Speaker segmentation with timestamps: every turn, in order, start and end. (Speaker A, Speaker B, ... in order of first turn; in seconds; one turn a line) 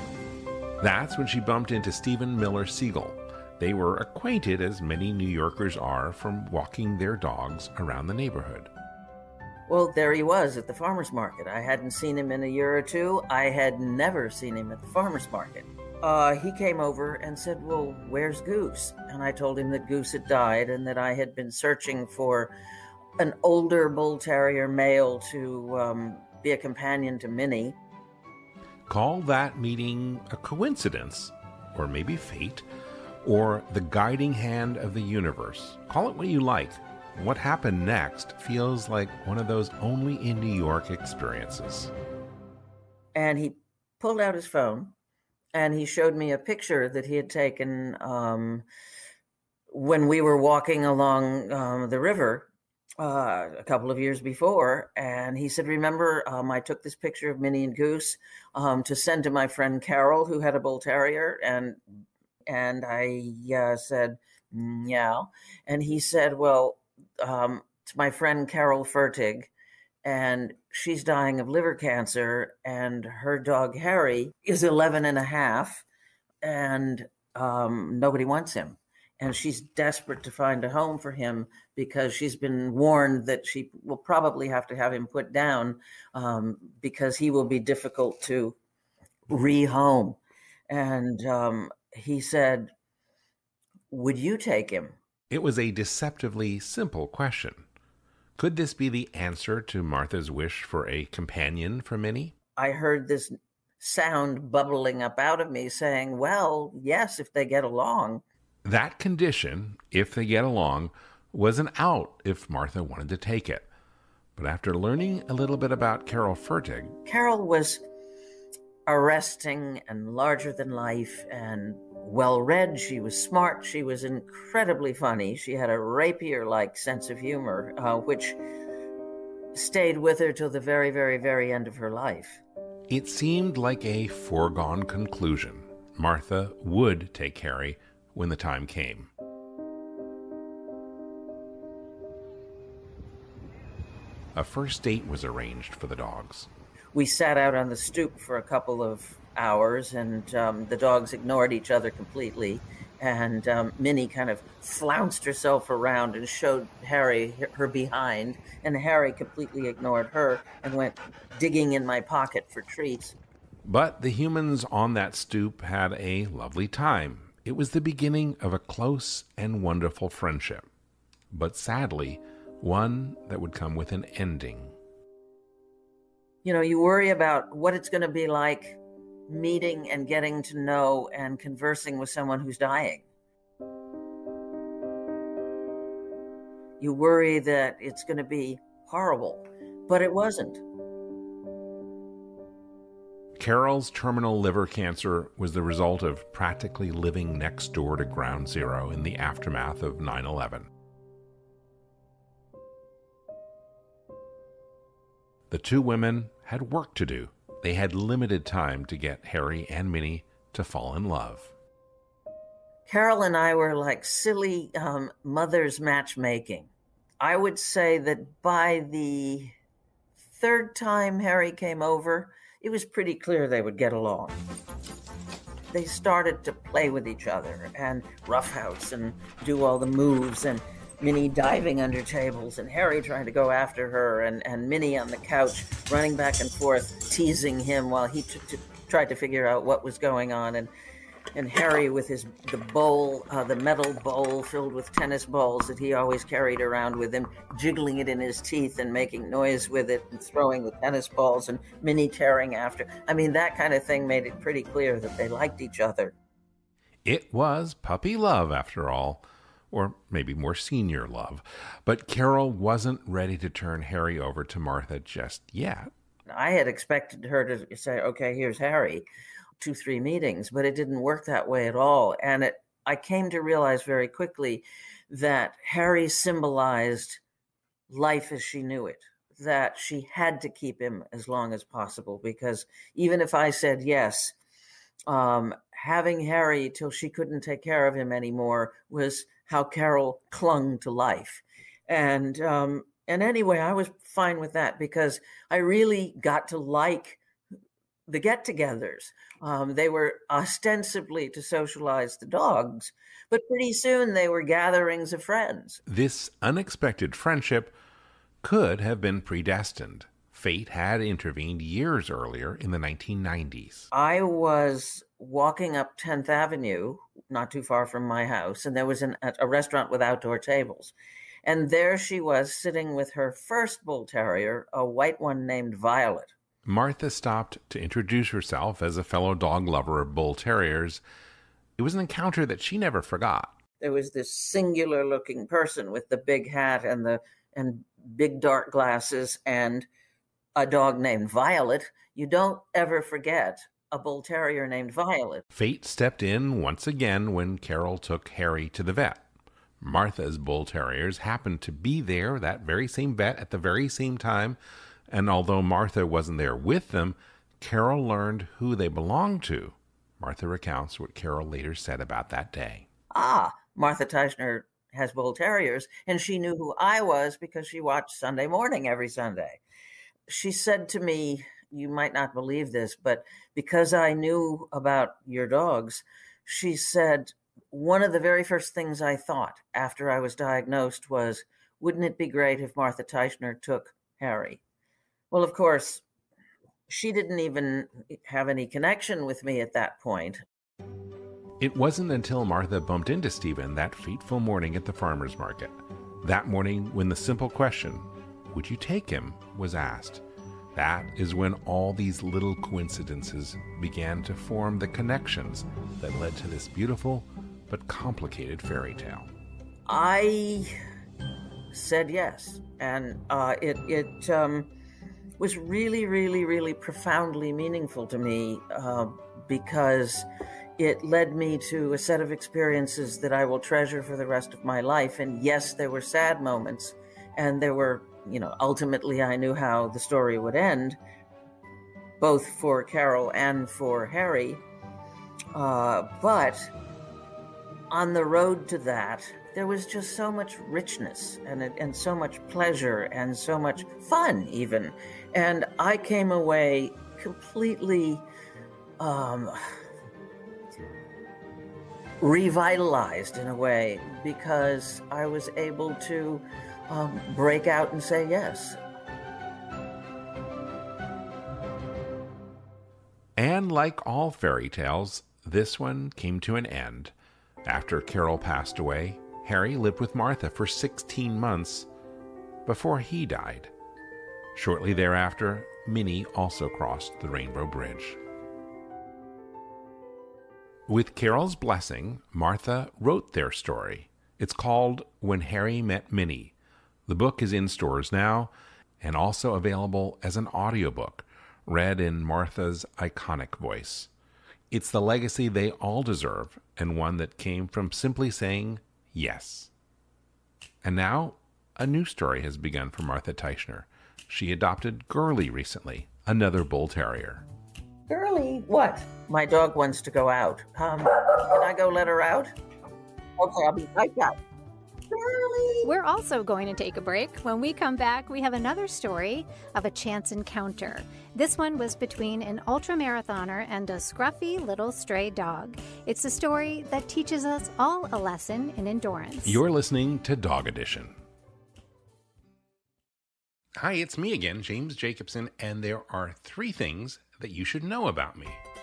Speaker A: 0.8-8.7
Speaker B: 9.7-22.5
Speaker B: 23.2-27.8
Speaker A: 28.9-32.7
Speaker A: 33.2-41.9
Speaker B: 43.1-44.9
Speaker B: 45.5-48.6
Speaker B: 49.7-69.5
Speaker B: 70.0-75.8
Speaker B: 76.4-88.6
Speaker B: 89.3-90.2
Speaker B: 90.7-92.7
Speaker B: 93.9-95.0
Speaker A: 95.3-97.7
Speaker A: 98.4-102.3
Speaker B: 102.6-108.2
Speaker A: 108.7-113.7
Speaker A: 114.4-117.0
Speaker B: 117.1-117.8
Speaker B: 118.9-128.4
Speaker B: 129.5-132.4
Speaker A: 132.9-139.1
Speaker A: 144.3-146.5
Speaker B: 146.9-163.2
Speaker A: 163.7-170.7
Speaker A: 171.3-174.8
Speaker B: 176.4-183.1
Speaker B: 186.8-190.6
Speaker A: 193.4-200.7
Speaker A: 205.5-211.5
Speaker B: 212.9-219.5
Speaker B: 220.3-224.4
Speaker B: 225.7-240.7
Speaker B: 241.3-256.1
Speaker A: 257.1-265.9
Speaker B: 266.3-269.1
Speaker B: 269.6-277.2
Speaker B: 277.9-284.4
Speaker B: 285.1-297.2
Speaker B: 298.1-305.8
Speaker A: 305.9-307.8
Speaker A: 308.4-313.9
Speaker B: 313.9-320.9
Speaker B: 321.4-326.3
Speaker A: 326.6-331.0
Speaker A: 331.8-333.6
Speaker B: 333.8-339.9
Speaker B: 340.6-345.4
Speaker A: 345.5-349.3
Speaker A: 349.8-354.6
Speaker A: 355.1-362.9
Speaker B: 363.1-369.6
Speaker B: 370.3-384.6
Speaker B: 385.3-386.0
Speaker B: 386.9-390.4
Speaker A: 391.6-400.2
Speaker A: 400.7-409.3
Speaker B: 409.9-410.7
Speaker B: 411.7-414.7
Speaker B: 415.4-420.3
Speaker B: 420.8-431.0
Speaker B: 432.2-434.6
Speaker B: 435.5-436.7
Speaker B: 437.9-448.3
Speaker B: 449.0-449.8
Speaker B: 452.2-458.8
Speaker A: 463.4-467.1
Speaker A: 467.6-471.9
Speaker A: 472.7-473.7
Speaker A: 474.6-478.2
Speaker A: 480.9-486.5
Speaker A: 487.1-494.1
Speaker A: 494.7-499.7
Speaker A: 500.8-507.5
Speaker B: 508.1-512.5
Speaker B: 513.4-514.4
Speaker B: 515.1-515.9
Speaker C: 515.8-529.6
Speaker A: 529.5-531.2
Speaker A: 533.8-538.6